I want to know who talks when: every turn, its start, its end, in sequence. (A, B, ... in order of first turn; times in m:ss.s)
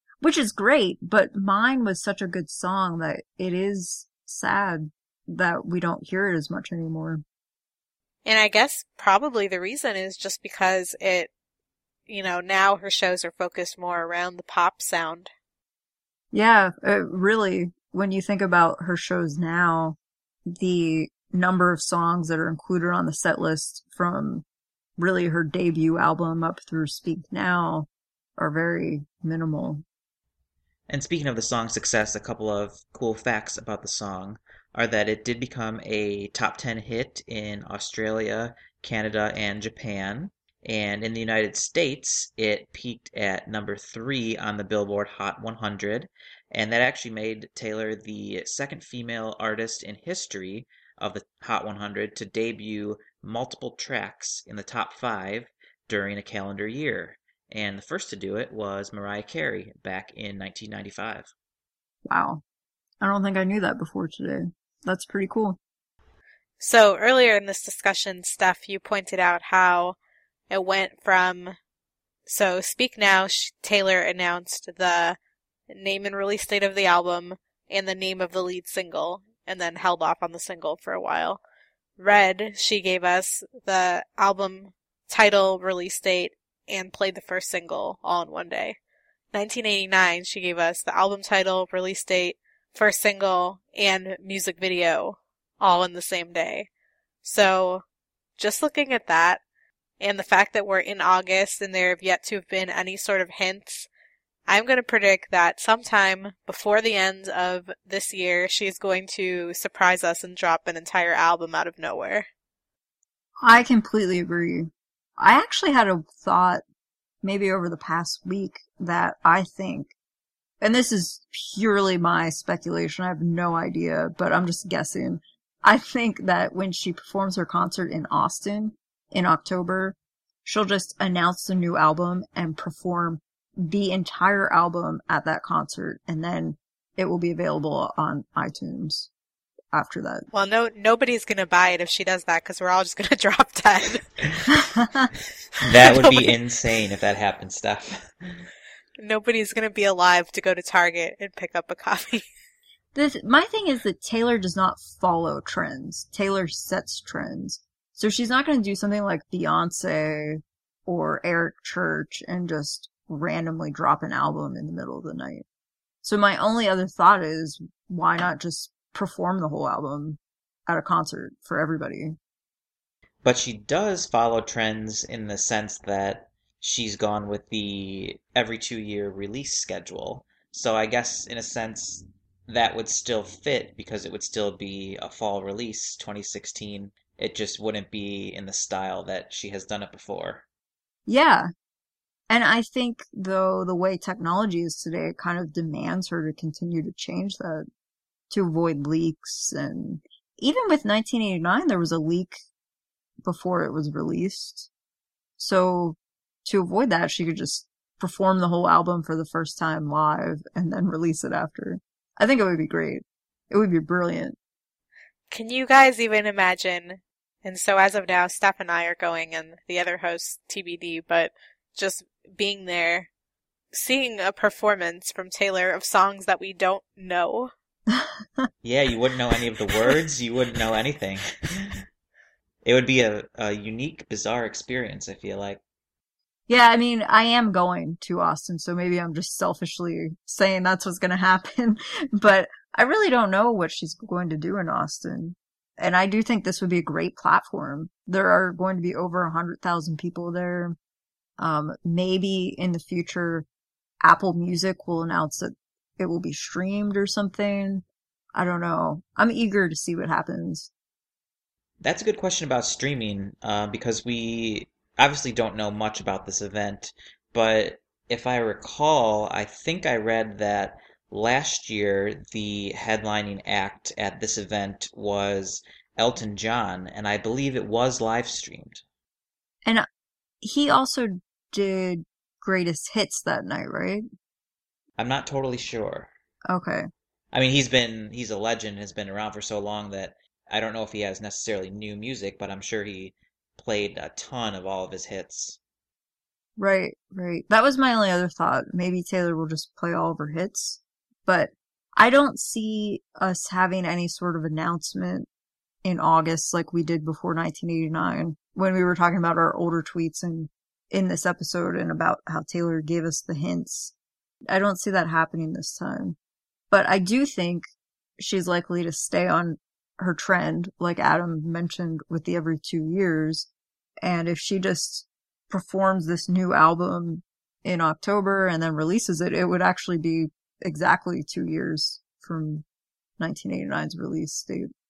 0:00.2-0:07.2 A
0:08.2-0:11.3 B
0:12.1-0:15.3 B
0:16.3-0:20.0 A
0:20.5-0:24.4 A
0:25.0-0:29.8 A
0:30.9-1:01.3 C
1:02.0-1:02.4 A
1:03.0-1:05.6 A
1:06.6-1:10.0 B
1:10.5-1:11.6 B
1:12.3-1:15.2 B
1:15.7-1:21.4 B
1:22.0-1:28.8 B
1:29.3-1:36.7 B
1:37.2-1:37.8 B
1:38.4-1:39.4 B
1:40.0-1:43.9 B
1:44.5-1:52.3 B
1:53.4-1:56.6 A
1:57.2-1:59.9 A
2:00.6-2:19.1 A
2:19.7-2:20.3 A
2:20.3-2:24.5 B
2:24.7-2:25.1 A
2:25.6-2:28.5 C
2:25.9-2:26.3 B
2:29.0-2:32.2 B
2:32.9-2:45.4 A
2:46.0-2:52.2 A
2:53.2-3:10.4 C
3:11.1-3:11.5 A
3:12.3-3:17.7 A
3:18.3-3:22.4 A
3:23.2-3:24.7 A
3:25.4-3:34.4 A
3:35.3-3:43.1 B
3:43.7-3:47.5 B
3:47.9-3:48.5 A
3:48.6-3:51.8 C
3:52.6-3:55.6 C
3:56.5-4:10.8 A
4:11.4-4:13.5 A
4:14.0-4:20.7 A
4:21.8-4:38.8 C
4:40.4-4:44.0 A
4:45.0-4:46.1 C
4:46.5-4:46.9 A
4:47.3-4:55.6 C
4:56.6-5:05.3 A
5:05.8-5:13.9 A
5:14.5-5:16.2 A
5:16.7-5:17.6 A
5:18.2-5:23.5 A
5:24.0-5:32.6 A
5:33.2-5:34.7 A